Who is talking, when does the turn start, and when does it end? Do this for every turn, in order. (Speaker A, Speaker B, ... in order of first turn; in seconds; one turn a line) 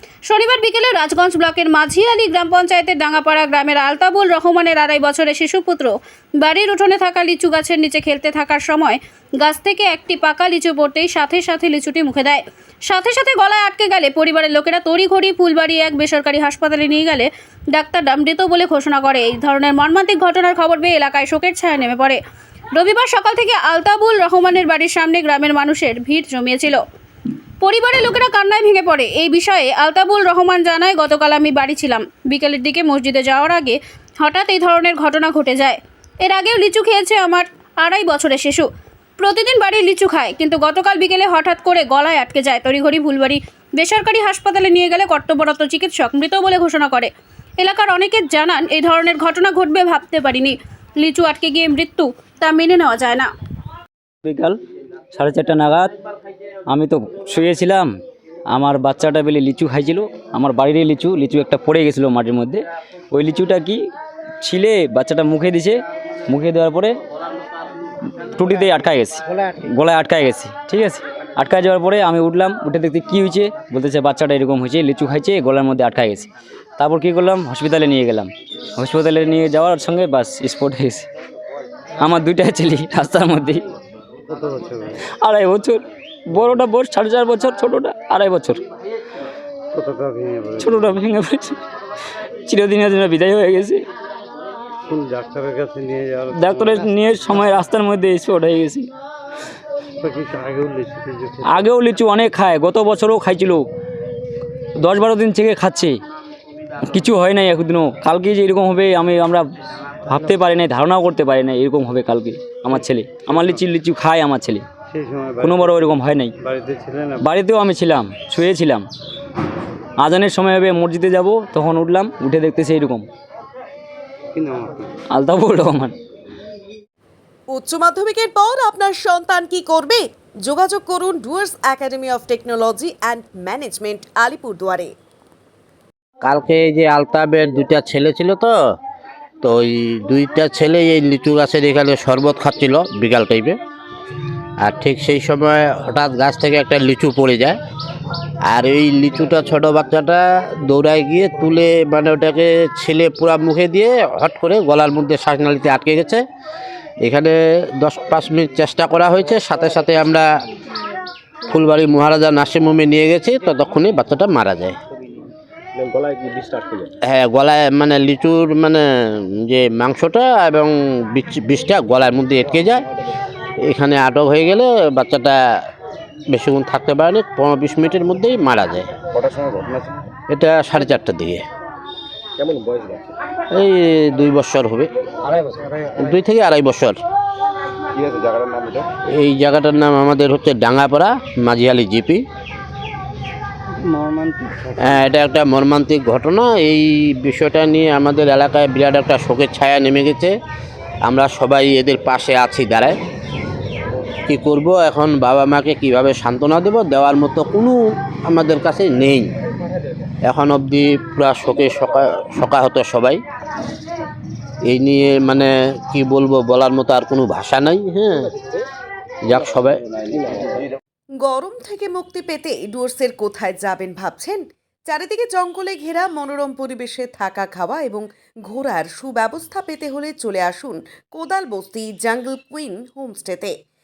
Speaker A: 0.3-22.2
Speaker A: 22.8-26.8
Speaker A: 27.6-38.7
Speaker A: 39.2-53.3
Speaker B: 54.2-54.6
Speaker B: 55.1-55.9
Speaker B: 56.7-57.9
Speaker B: 58.5-63.8
Speaker B: 64.4-67.0
Speaker B: 68.3-81.1
Speaker B: 82.0-83.6
Speaker C: 84.3-85.0
Speaker B: 85.2-88.6
Speaker C: 89.7-90.9
Speaker B: 90.6-91.6
Speaker B: 92.5-93.8
Speaker C: 94.9-96.8
Speaker B: 96.3-98.9
Speaker C: 100.0-101.6
Speaker B: 101.4-103.7
Speaker B: 104.8-106.0
Speaker B: 106.8-109.5
Speaker B: 110.1-114.6
Speaker C: 114.9-115.8
Speaker B: 115.4-116.3
Speaker C: 116.4-117.3
Speaker B: 117.2-118.9
Speaker B: 120.0-123.1
Speaker C: 124.3-124.9
Speaker B: 125.1-126.0
Speaker D: 127.5-134.9
Speaker E: 136.2-138.6
Speaker E: 139.4-143.6
Speaker E: 144.6-147.6
Speaker E: 148.5-156.2
Speaker E: 157.0-160.3
Speaker E: 161.5-164.8
Speaker F: 165.8-166.9
Speaker E: 167.0-172.8
Speaker E: 173.6-175.4
Speaker E: 176.3-179.0
Speaker F: 179.1-179.9
Speaker E: 180.3-181.4
Speaker F: 182.4-183.1
Speaker E: 183.5-184.9
Speaker E: 186.0-187.0
Speaker F: 187.9-188.9
Speaker E: 189.1-192.2
Speaker C: 193.8-194.7
Speaker E: 194.8-200.3
Speaker E: 201.0-203.0
Speaker E: 204.3-209.3
Speaker E: 210.2-213.2
Speaker E: 214.7-218.3
Speaker E: 219.3-219.8
Speaker D: 221.2-233.5